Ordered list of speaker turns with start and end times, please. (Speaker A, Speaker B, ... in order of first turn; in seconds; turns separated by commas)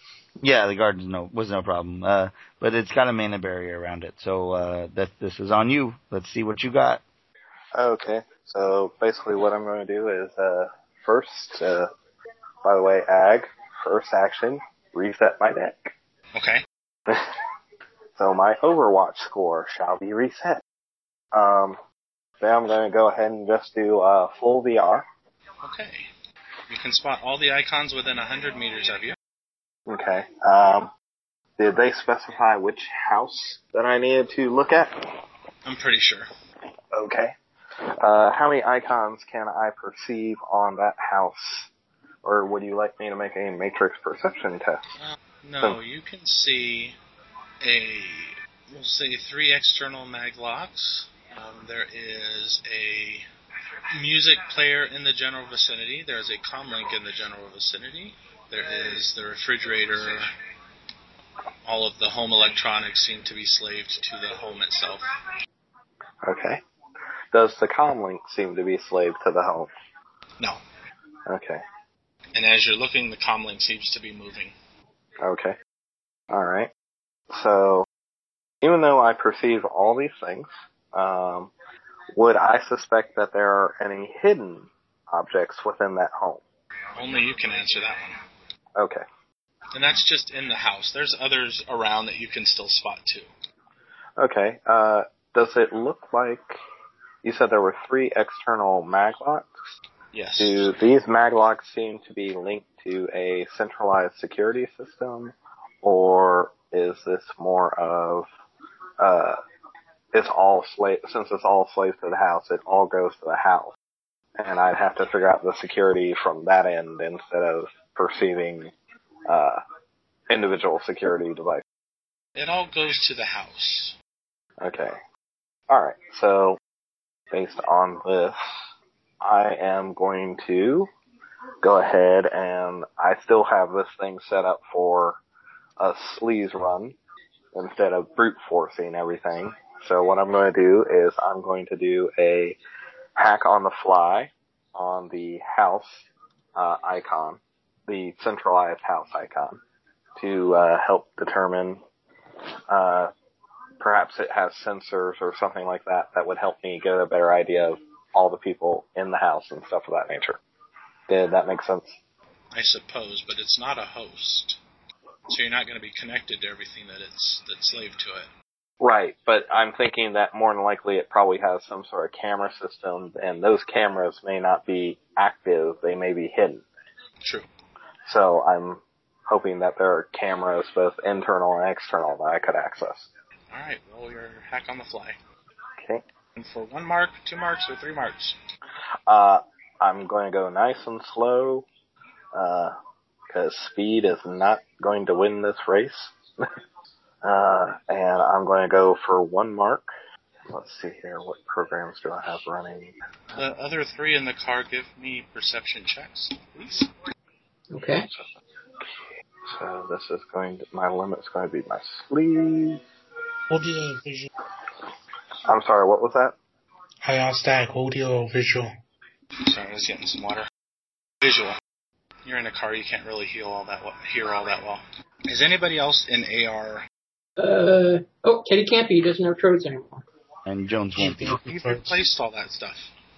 Speaker A: 0.4-7.0, Speaker B: 7.7-11.9, Speaker B: 12.6-15.9, Speaker C: 16.4-16.6, Speaker B: 18.2-20.6, Speaker B: 21.3-21.8, Speaker B: 22.4-25.1, Speaker C: 25.6-26.1, Speaker C: 26.7-29.2, Speaker B: 29.9-30.9, Speaker B: 31.6-34.9, Speaker C: 35.6-36.3, Speaker B: 36.9-37.3, Speaker B: 38.0-41.7, Speaker B: 42.2-44.8, Speaker C: 45.0-47.0, Speaker C: 47.6-53.3, Speaker C: 53.9-60.3, Speaker C: 61.6-65.1, Speaker B: 66.2-66.6, Speaker B: 67.3-69.7, Speaker B: 71.3-71.6, Speaker C: 72.3-74.5, Speaker B: 75.2-75.6, Speaker B: 76.3-76.7, Speaker B: 77.3-77.9, Speaker B: 78.6-81.5, Speaker B: 82.2-86.4, Speaker C: 87.0-88.2, Speaker B: 88.8-89.0, Speaker C: 89.7-93.3, Speaker B: 94.2-96.6, Speaker B: 97.2-99.7, Speaker C: 100.1-100.7, Speaker B: 100.4-108.3, Speaker B: 109.0-109.4, Speaker B: 110.1-113.7, Speaker B: 114.4-118.7, Speaker B: 119.3-119.6, Speaker B: 120.3-121.6, Speaker C: 122.4-124.0, Speaker B: 124.6-125.0, Speaker B: 125.7-126.6, Speaker B: 127.3-128.4, Speaker B: 129.2-130.9, Speaker B: 131.6-135.2, Speaker B: 135.8-137.0, Speaker B: 137.5-142.6, Speaker B: 143.2-146.0, Speaker B: 146.6-149.6, Speaker B: 150.2-151.8, Speaker B: 152.7-153.1, Speaker B: 153.8-160.4, Speaker B: 161.1-162.0, Speaker C: 162.5-164.6, Speaker C: 165.3-168.3, Speaker B: 168.8-176.6, Speaker B: 178.1-183.1, Speaker C: 183.5-185.2, Speaker C: 186.4-188.4, Speaker B: 189.1-191.7, Speaker B: 192.3-192.7, Speaker B: 193.3-196.1, Speaker B: 197.2-199.9, Speaker B: 200.5-202.9, Speaker C: 203.3-206.9, Speaker D: 207.7-208.1, Speaker B: 208.8-212.8, Speaker E: 213.5-214.3, Speaker B: 215.5-216.3, Speaker E: 217.0-218.7, Speaker C: 219.5-220.5, Speaker C: 221.2-221.6, Speaker C: 222.2-226.8, Speaker D: 227.4-230.1, Speaker A: 230.5-231.4, Speaker E: 231.0-232.0, Speaker C: 231.4-232.9